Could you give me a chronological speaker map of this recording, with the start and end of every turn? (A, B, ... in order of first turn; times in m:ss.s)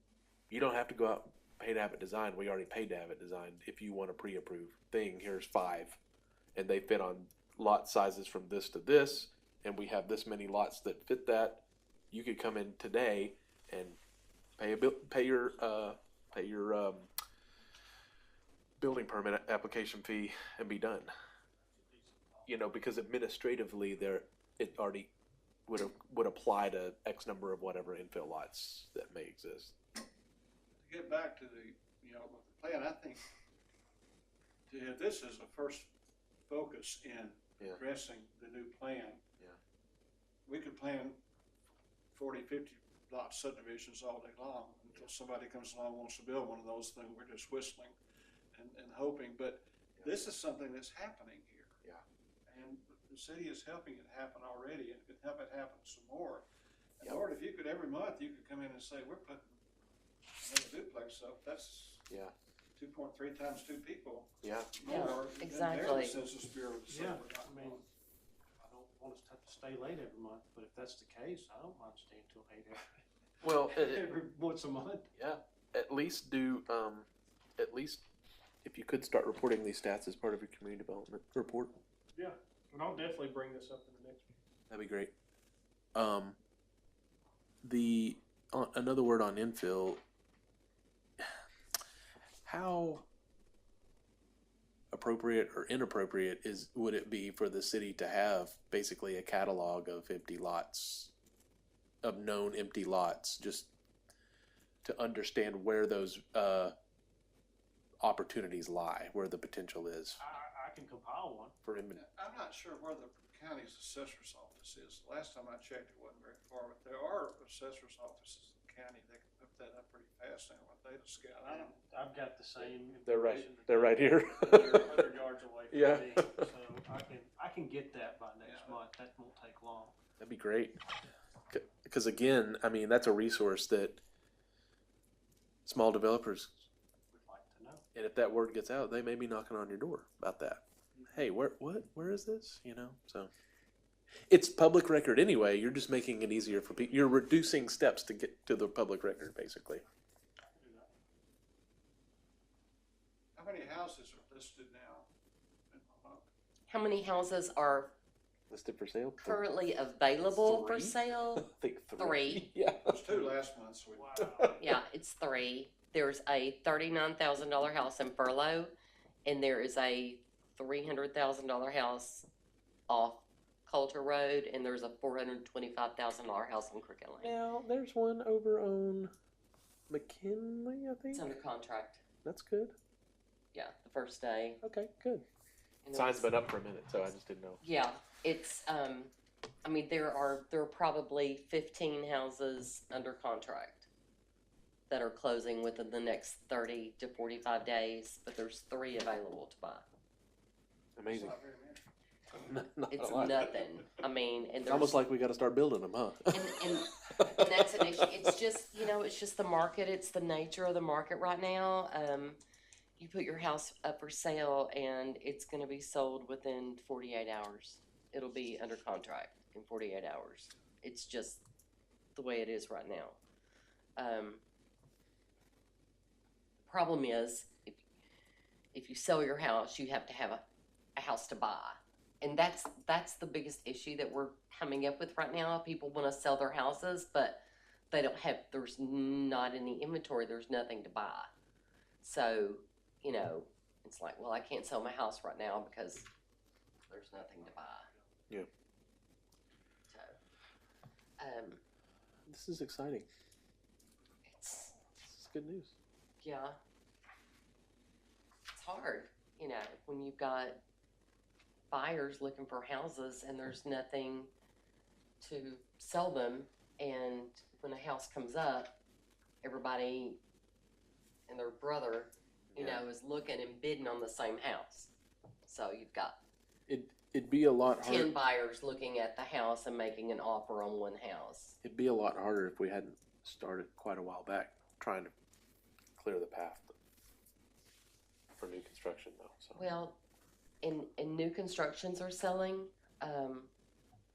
0:00.5-0:06.0 A
0:06.6-0:14.0 A
0:14.6-0:17.1 A
0:18.8-0:21.1 A
0:21.7-0:22.5 B
0:22.5-0:25.1 A
0:25.7-0:29.8 A
0:30.8-0:33.2 C
0:34.7-0:35.9 C
0:36.5-0:39.2 C
0:40.5-0:41.2 C
0:42.1-0:48.0 C
0:48.5-0:51.8 C
0:52.5-0:56.5 C
0:57.0-0:59.6 C
1:00.4-1:02.1 C
1:02.1-1:02.3 A
1:02.8-1:07.9 C
1:04.4-1:04.8 A
1:04.8-1:06.2 D
1:06.9-1:07.8 B
1:08.6-1:15.1 B
1:13.4-1:14.0 A
1:15.2-1:18.0 A
1:18.6-1:21.8 A
1:22.1-1:24.3 B
1:24.7-1:25.1 A
1:26.0-1:26.4 A
1:27.6-1:30.0 A
1:32.5-1:33.0 A
1:34.9-1:41.1 A
1:42.0-1:43.7 A
1:44.8-1:46.8 A
1:48.0-1:50.2 A
1:50.2-1:51.6 B
1:51.6-1:52.0 A
1:51.9-2:01.8 C
2:01.5-2:10.0 B
2:03.1-2:05.1 A
2:05.7-2:06.5 A
2:08.4-2:08.8 C
2:10.2-2:10.8 A
2:11.5-2:14.0 A
2:15.7-2:16.6 A
2:17.1-2:17.8 B
2:18.0-2:20.6 A
2:21.0-2:21.2 B
2:21.1-2:23.3 A
2:24.3-2:29.8 A
2:30.6-2:30.9 B
2:33.4-2:35.1 C
2:35.7-2:36.3 C
2:36.7-2:37.9 D
2:38.5-2:39.5 A
2:39.2-2:42.5 D
2:40.3-2:43.2 A
2:42.9-2:44.2 C
2:43.9-2:44.6 B
2:44.2-2:44.7 A
2:44.6-2:48.7 D
2:49.2-2:52.3 D
2:52.9-2:57.4 D
2:57.2-2:59.1 A
2:59.9-3:01.3 A
3:01.1-3:02.0 D
3:02.2-3:02.8 A
3:03.5-3:04.6 D
3:04.6-3:05.2 A
3:05.8-3:06.4 D
3:05.9-3:07.6 A
3:07.6-3:09.1 D
3:09.6-3:13.9 D
3:14.9-3:19.9 D
3:21.0-3:21.4 A
3:21.1-3:21.8 C
3:22.3-3:23.5 A
3:22.9-3:25.0 D
3:24.6-3:28.2 A
3:26.3-3:32.4 D
3:33.0-3:41.4 D
3:42.2-3:43.2 D
3:44.0-3:44.4 D
3:46.6-3:47.8 D
3:48.7-3:50.4 D
3:51.0-4:01.3 D
4:02.0-4:06.1 D
4:06.9-4:07.9 D
4:09.9-4:10.2 D
4:11.2-4:11.6 D
4:12.3-4:13.1 A
4:14.3-4:14.8 D
4:15.0-4:15.7 A
4:16.2-4:16.6 D
4:18.5-4:20.6 D
4:21.7-4:24.3 D
4:25.2-4:28.8 D
4:29.4-4:30.2 D
4:31.3-4:34.9 D
4:32.5-4:32.8 A
4:35.5-4:36.2 D
4:36.7-4:38.1 A
4:37.8-4:41.6 D
4:41.6-4:45.1 A
4:46.0-4:46.7 A
4:48.4-4:49.6 A
4:49.6-4:50.0 D
4:50.6-4:53.5 D